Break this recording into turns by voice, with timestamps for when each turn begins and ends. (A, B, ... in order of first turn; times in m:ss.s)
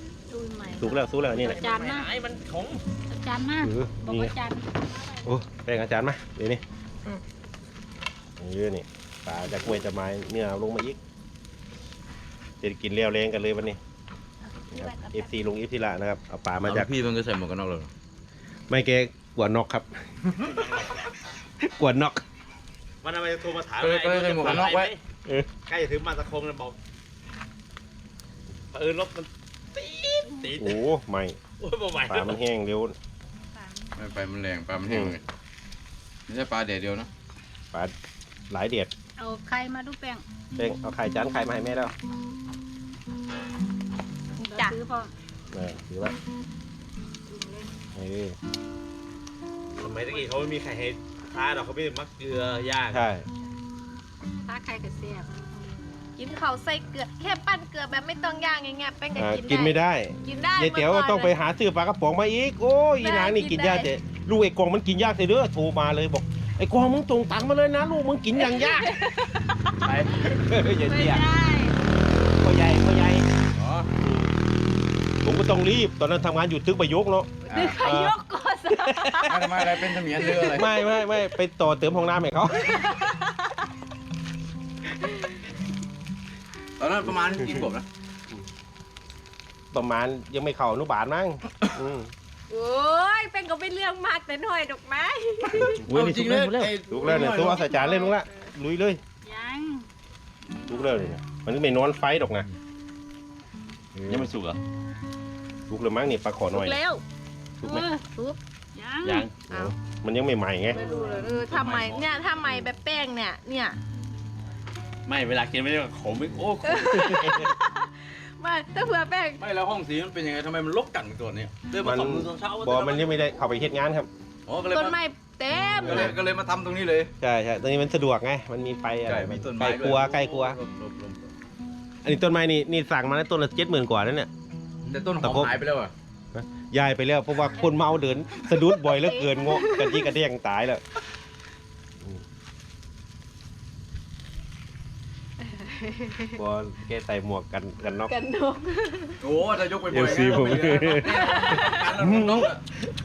0:00.3-0:02.1 A
0:00.7-0:01.6 B
0:01.2-0:02.8 C
0:03.1-0:05.3 A
0:03.6-0:04.3 B
0:05.2-0:06.6 B
0:08.4-0:11.0 B
0:12.6-0:13.8 B
0:14.4-0:15.3 D
0:14.7-0:16.9 B
0:16.6-0:17.9 E
0:18.7-0:20.0 B
0:20.5-0:21.0 C
0:21.6-0:22.2 B
0:23.0-0:25.0 C
0:23.8-0:24.9 E
0:25.6-0:26.8 C
0:28.7-0:30.8 C
0:30.6-0:31.4 B
0:31.6-0:32.4 C
0:32.0-0:32.9 B
0:33.5-0:34.2 A
0:34.0-0:35.2 E
0:34.9-0:35.2 B
0:36.3-0:37.1 E
0:38.5-0:38.9 B
0:39.2-0:40.2 A
0:40.6-0:41.9 B
0:44.4-0:44.7 D
0:44.4-0:45.1 A
0:45.5-0:46.2 B
0:47.3-0:47.7 A
0:47.9-0:48.4 B
0:49.8-0:53.1 C
0:49.8-0:50.2 A
0:52.9-0:53.2 B
0:54.3-0:56.0 A
0:56.2-1:01.3 D
0:59.1-1:09.1 B
1:03.0-1:03.9 D
1:08.4-1:09.3 D
1:09.8-1:10.7 C
1:10.3-1:11.3 B
1:10.8-1:11.8 D
1:12.3-1:13.3 B
1:13.5-1:13.9 E
1:14.0-1:14.3 B
1:15.2-1:18.2 B
1:17.4-1:17.8 E
1:17.5-1:19.5 D
1:18.7-1:19.6 B
1:19.2-1:20.7 E
1:20.2-1:20.6 D
1:20.3-1:22.8 B
1:22.8-1:23.3 D
1:25.0-1:25.3 D
1:26.8-1:27.8 E
1:27.1-1:27.7 B
1:29.7-1:32.1 B
1:32.5-1:35.8 D
1:35.7-1:39.0 B
1:35.8-1:37.6 E
1:36.1-1:36.7 C
1:37.0-1:38.5 D
1:39.2-1:39.9 A
1:40.4-1:41.1 A
1:40.7-1:42.5 B
1:44.0-1:44.3 B
1:44.1-1:44.6 C
1:45.7-1:46.8 B
1:46.5-1:47.0 D
1:47.6-1:47.9 B
1:47.6-1:48.0 A
1:47.7-1:48.4 D
1:48.7-1:49.3 A
1:49.0-1:49.4 C
1:49.5-1:50.8 B
1:49.5-1:49.7 D
1:50.7-1:53.8 D
1:50.8-1:52.1 E
1:52.4-1:52.7 B
1:55.0-1:57.4 C
1:56.6-1:59.4 D
1:57.2-1:57.4 B
1:59.4-2:01.7 E
2:01.7-2:03.4 C
2:01.8-2:04.1 B
2:04.5-2:05.0 E
2:04.7-2:06.2 D
2:05.8-2:07.1 E
2:05.8-2:06.1 B
2:07.2-2:10.6 B
2:09.1-2:11.3 E
2:12.0-2:14.3 B
2:14.9-2:15.9 E
2:15.2-2:15.6 B
2:16.3-2:20.8 B
2:18.4-2:20.1 D
2:25.4-2:26.4 D
2:26.4-2:28.1 B
2:28.1-2:29.2 D
2:29.2-2:32.6 E
2:29.9-2:32.6 B
2:31.0-2:31.9 D